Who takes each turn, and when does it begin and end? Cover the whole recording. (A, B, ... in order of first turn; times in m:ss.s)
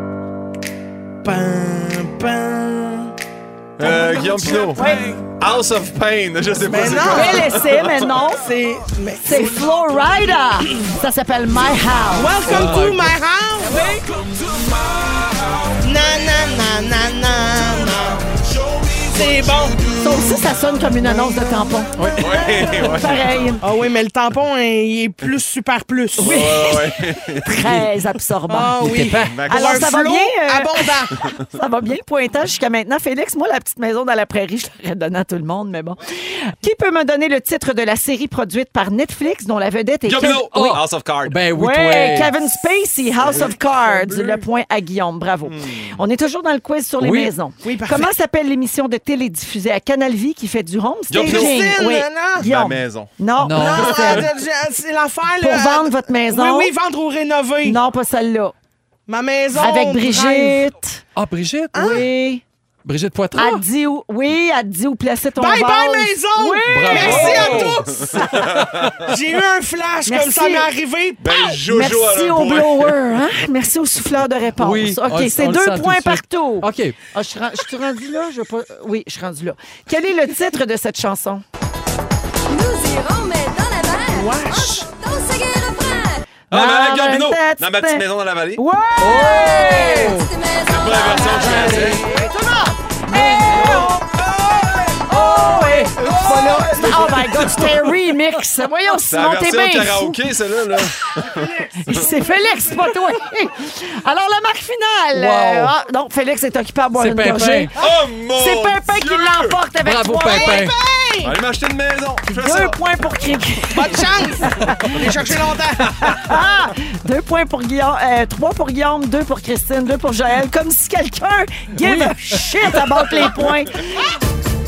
0:01.2-0:03.1 A
0:03.8-0:08.0 B
0:03.8-0:05.1 A
0:04.8-0:05.2 C
0:06.6-0:07.6 A
0:07.0-0:08.5 C
0:08.3-0:10.2 A
0:09.2-0:12.5 C
0:12.1-0:13.8 A
0:12.4-0:13.2 D
0:15.8-0:18.4 A
0:19.0-0:19.9 A
0:19.9-0:23.6 C
0:21.0-0:21.4 A
0:22.0-0:22.9 D
0:22.2-0:23.5 B
0:23.6-0:26.4 A
0:26.2-0:27.8 B
0:26.2-0:28.8 C
0:28.5-0:31.2 A
0:28.8-0:29.4 D
0:29.2-0:29.9 B
0:29.5-0:40.8 C
0:40.0-0:41.4 B
0:40.2-0:42.4 D
0:41.5-0:54.3 C
0:43.2-0:44.4 A
0:45.4-0:46.0 B
0:47.0-0:47.3 D
0:47.6-0:48.1 A
0:51.1-0:51.8 B
0:51.2-0:52.5 A
0:52.4-0:53.1 B
0:53.4-0:54.1 D
0:53.5-0:57.8 A
0:55.4-0:56.7 C
0:57.6-0:58.5 C
0:59.1-1:00.6 A
0:59.5-1:01.0 C
1:01.2-1:02.1 D
1:01.7-1:02.0 A
1:01.8-1:02.4 C
1:02.8-1:03.6 D
1:03.3-1:07.8 C
1:05.4-1:11.6 A
1:06.7-1:07.8 D
1:07.5-1:09.1 B
1:10.0-1:10.7 C
1:11.2-1:13.0 B
1:11.6-1:21.4 C
1:14.6-1:17.0 D
1:22.5-1:24.2 E
1:24.1-1:24.9 A
1:24.9-1:26.2 E
1:26.5-1:28.6 B
1:26.5-1:30.3 C
1:29.0-1:30.3 D
1:30.3-1:31.6 E
1:30.6-1:32.0 B
1:31.2-1:33.9 C
1:31.5-1:32.0 D
1:33.5-1:33.9 D
1:35.1-1:40.2 C
1:35.1-1:36.1 D
1:36.0-1:36.6 B
1:36.8-1:37.5 D
1:39.1-1:42.0 B
1:41.8-1:47.7 C
1:41.9-1:42.6 A
1:45.1-1:45.7 D
1:47.0-1:47.7 D
1:47.7-1:49.6 B
1:48.3-1:50.6 C
1:49.8-1:50.7 D
1:50.4-1:51.4 A
1:51.2-1:52.8 B
1:52.3-1:55.1 C
1:53.7-1:56.0 A
1:55.9-2:04.0 C
2:01.8-2:03.2 D